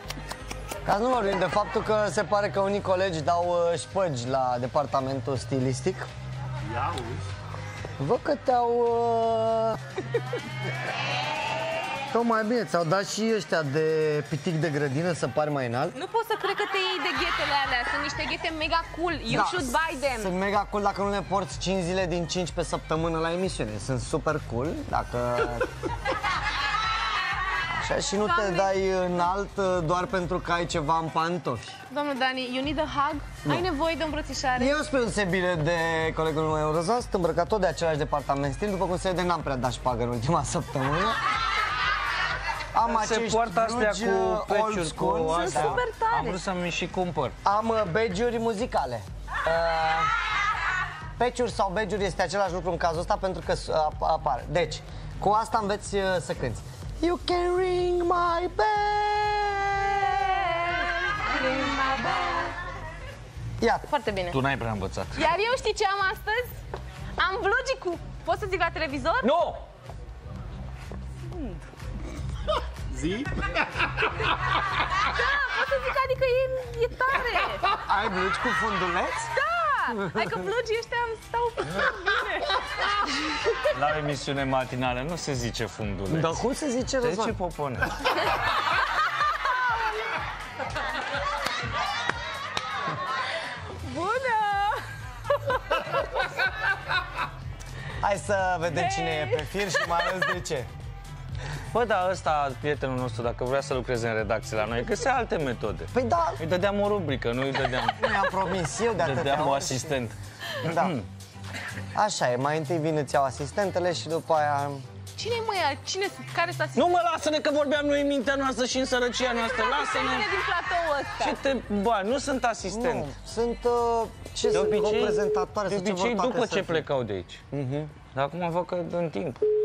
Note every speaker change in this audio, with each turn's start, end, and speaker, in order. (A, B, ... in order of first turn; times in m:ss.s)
0:00.8-0:06.1 A
0:08.0-0:09.8 A
0:12.1-0:16.0 A
0:16.0-0:20.3 B
0:19.3-0:25.7 A
0:27.7-0:31.7 A
0:28.2-0:28.8 B
0:31.9-0:34.8 B
0:34.6-0:41.2 A
0:42.7-0:45.8 A
0:42.9-0:47.4 C
0:45.3-0:46.4 B
0:47.4-0:50.1 A
0:51.2-1:00.5 A
1:00.2-1:02.5 B
1:03.6-1:03.9 A
1:03.9-1:04.4 B
1:04.3-1:05.2 C
1:05.2-1:06.6 B
1:07.2-1:09.4 B
1:09.2-1:09.6 C
1:14.9-1:17.6 B
1:17.7-1:19.3 A
1:19.3-1:23.6 B
1:19.9-1:20.5 A
1:23.7-1:26.4 C
1:26.1-1:27.4 A
1:27.0-1:27.9 C
1:33.8-1:34.8 B
1:35.4-1:36.0 B
1:38.0-1:40.7 A
1:38.7-1:39.9 B
1:41.7-1:48.4 C
1:45.9-1:46.4 A
1:48.0-1:50.0 A
1:49.0-1:51.0 C
1:50.6-1:51.0 A
1:51.9-1:54.8 A
1:55.2-1:56.9 B
1:56.8-2:00.3 C
1:59.2-2:01.4 B
2:01.2-2:03.1 C
2:02.7-2:06.9 A
2:04.5-2:07.4 C
2:07.5-2:07.9 A
2:08.0-2:09.4 C